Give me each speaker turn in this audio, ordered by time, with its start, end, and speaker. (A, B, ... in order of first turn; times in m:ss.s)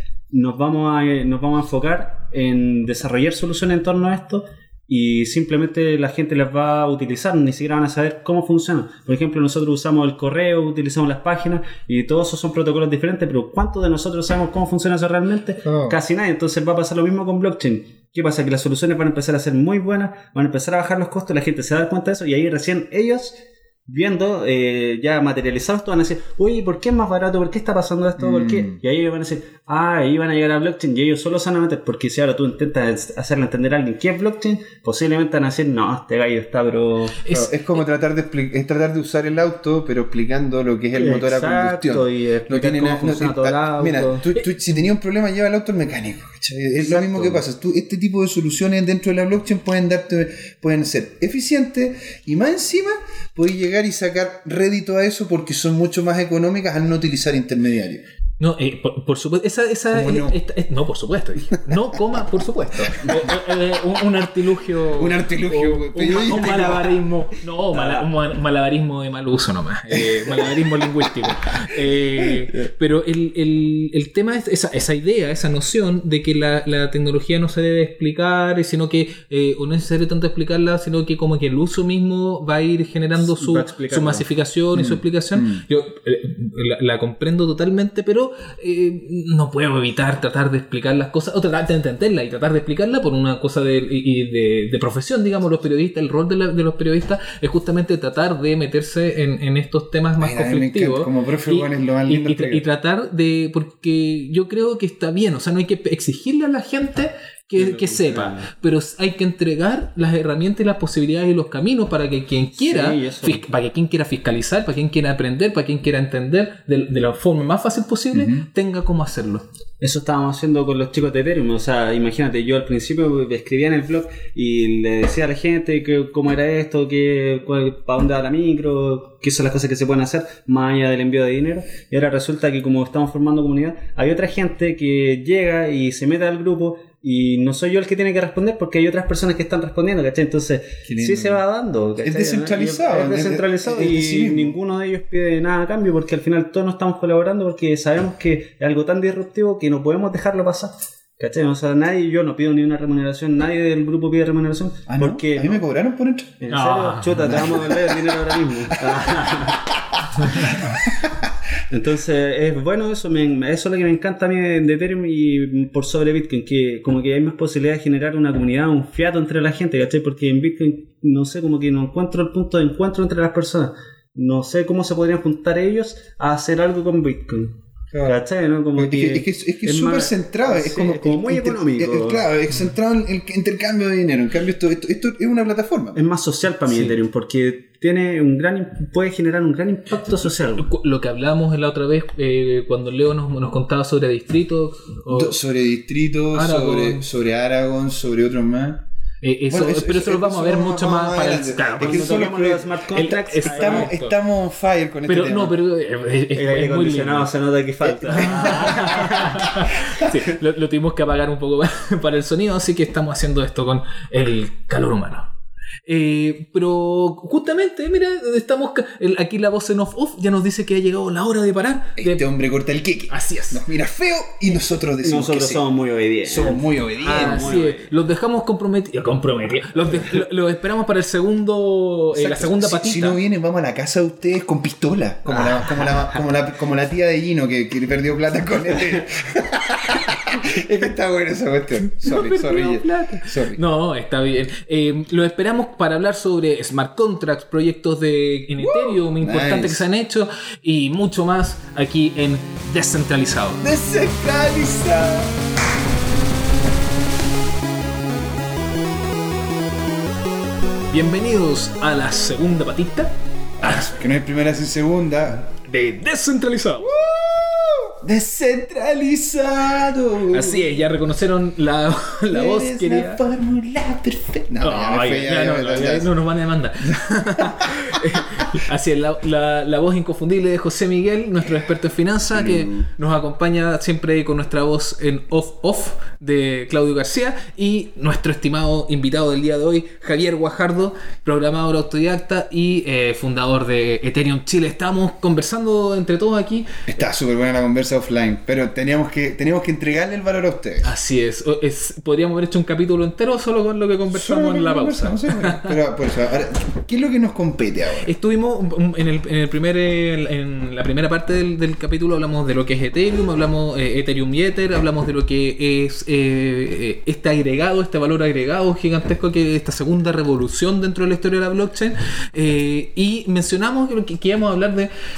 0:00.3-0:37.2 A
0:15.6-0:16.0 B
0:28.2-0:28.8 B
0:37.2-0:37.8 C
0:37.3-0:58.0 B
0:40.9-0:44.3 A
0:46.7-0:47.4 A
0:58.4-1:59.4 C
0:59.9-1:00.4 B
1:01.5-1:01.8 B
1:02.9-1:03.3 B
1:04.9-1:07.0 B
1:06.3-1:06.7 A
1:07.7-1:08.1 A
1:09.9-1:12.5 B
1:23.1-1:24.3 A
1:24.7-1:25.6 B
1:40.2-1:42.6 B
1:47.6-1:48.5 A
1:52.5-1:53.4 A
1:58.1-1:58.4 B
1:59.8-2:35.6 A
2:20.8-2:21.4 B
2:22.0-2:24.6 B
2:34.9-2:36.4 B
2:36.4-2:39.7 A
2:36.5-2:37.4 C
2:37.2-2:41.1 B
2:40.2-2:40.5 A
2:41.7-3:02.3 A
2:57.9-2:58.2 B
2:58.8-3:06.0 B
3:05.9-3:10.7 A
3:10.6-3:15.4 C
3:15.1-3:18.8 B
3:16.3-3:17.0 C
3:19.2-3:22.3 C
3:19.5-3:22.7 B
3:21.8-3:23.9 A
3:22.9-3:24.2 C
3:23.4-3:25.6 B
3:25.1-3:27.3 C
3:26.3-3:29.5 A
3:28.0-3:29.3 B
3:28.2-3:35.3 C
3:35.8-3:42.2 C
3:42.0-3:45.6 B
3:43.1-3:43.6 C
3:45.0-3:47.9 A
3:46.2-3:47.5 B
3:47.0-3:53.2 C
3:49.9-3:50.2 B
3:52.1-4:03.6 B
3:55.3-3:56.2 A
4:01.9-4:13.6 C
4:08.6-4:09.9 B
4:13.6-4:15.3 B
4:20.9-4:23.8 C
4:23.6-4:25.5 B
4:25.7-4:27.0 C
4:26.8-4:30.8 B
4:30.3-4:33.2 C
4:32.3-4:36.1 B
4:34.6-4:56.7 C
4:36.9-4:38.4 B
4:42.3-4:42.9 B
4:56.9-5:00.9 B
5:00.8-5:05.8 C
5:04.1-5:08.1 B
5:08.0-5:24.9 C